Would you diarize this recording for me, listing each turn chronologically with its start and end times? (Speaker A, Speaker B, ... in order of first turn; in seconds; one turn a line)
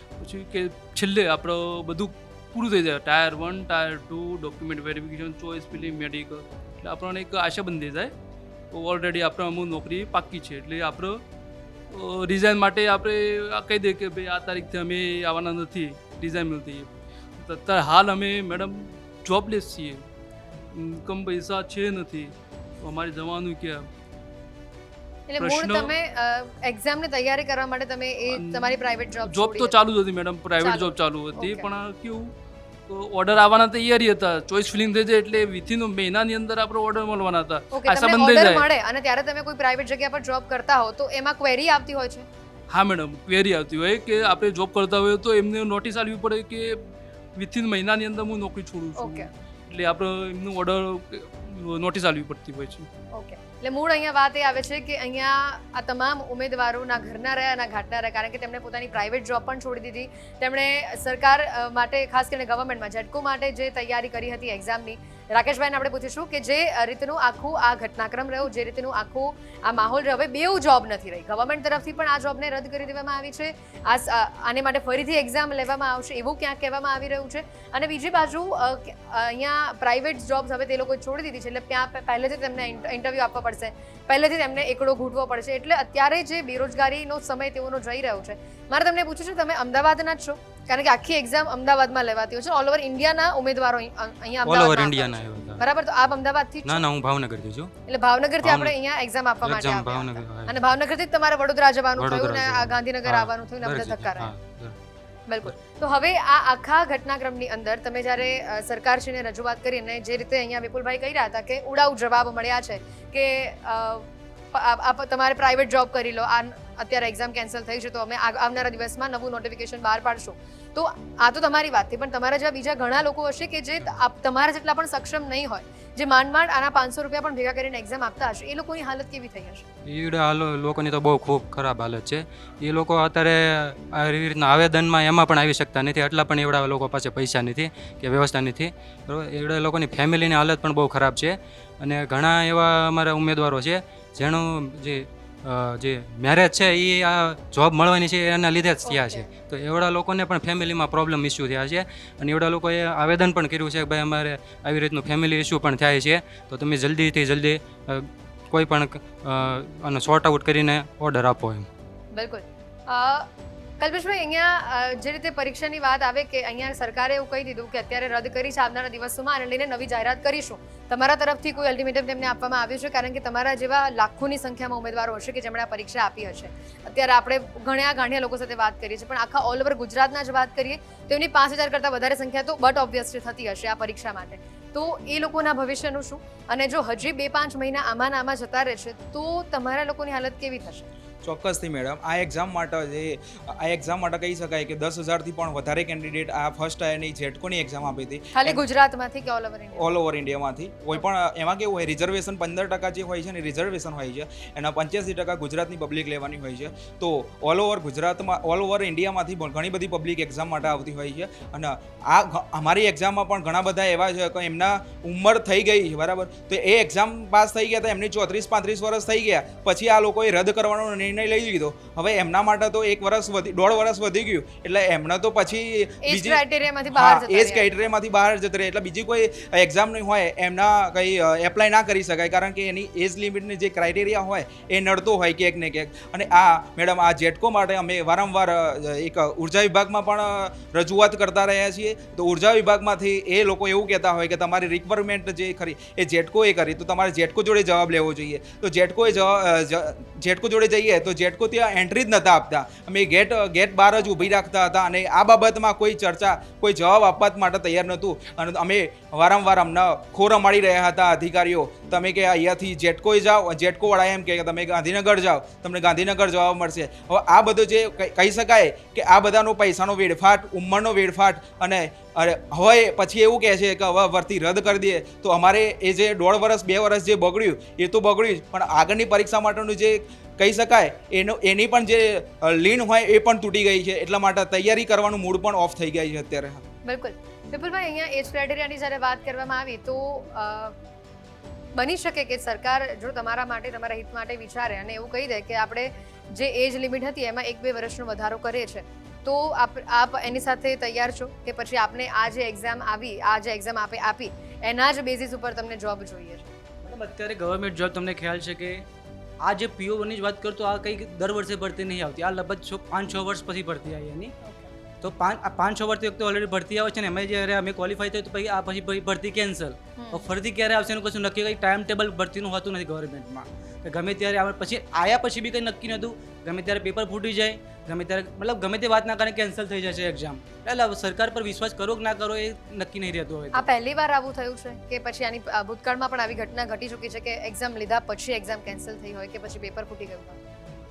Speaker A: 0.1-8.1
Speaker A: 8.7-11.2
Speaker A: 11.9-20.1
Speaker A: 20.7-23.9
Speaker B: 25.3-29.7
Speaker A: 25.4-25.9
Speaker A: 28.4-32.3
Speaker B: 30.6-31.7
Speaker A: 32.9-38.7
Speaker B: 37.7-42.2
Speaker A: 42.7-52.9
Speaker B: 49.0-49.3
Speaker B: 53.1-96.8
Speaker C: 94.4-95.6
Speaker C: 96.6-97.7
Speaker B: 97.9-104.3
Speaker C: 98.4-98.7
Speaker C: 99.4-100.6
Speaker C: 102.0-104.8
Speaker B: 105.3-129.7
Speaker C: 129.8-161.7
Speaker B: 148.8-149.3
Speaker B: 162.1-163.3
Speaker B: 163.8-190.9
Speaker D: 191.2-198.6
Speaker B: 198.3-199.9
Speaker D: 199.7-286.6
Speaker B: 226.1-227.7
Speaker B: 286.8-290.7
Speaker B: 291.8-306.5
Speaker E: 306.8-308.8
Speaker E: 309.4-314.3
Speaker B: 314.4-314.7
Speaker E: 315.0-333.7
Speaker B: 320.0-320.3
Speaker B: 333.5-340.4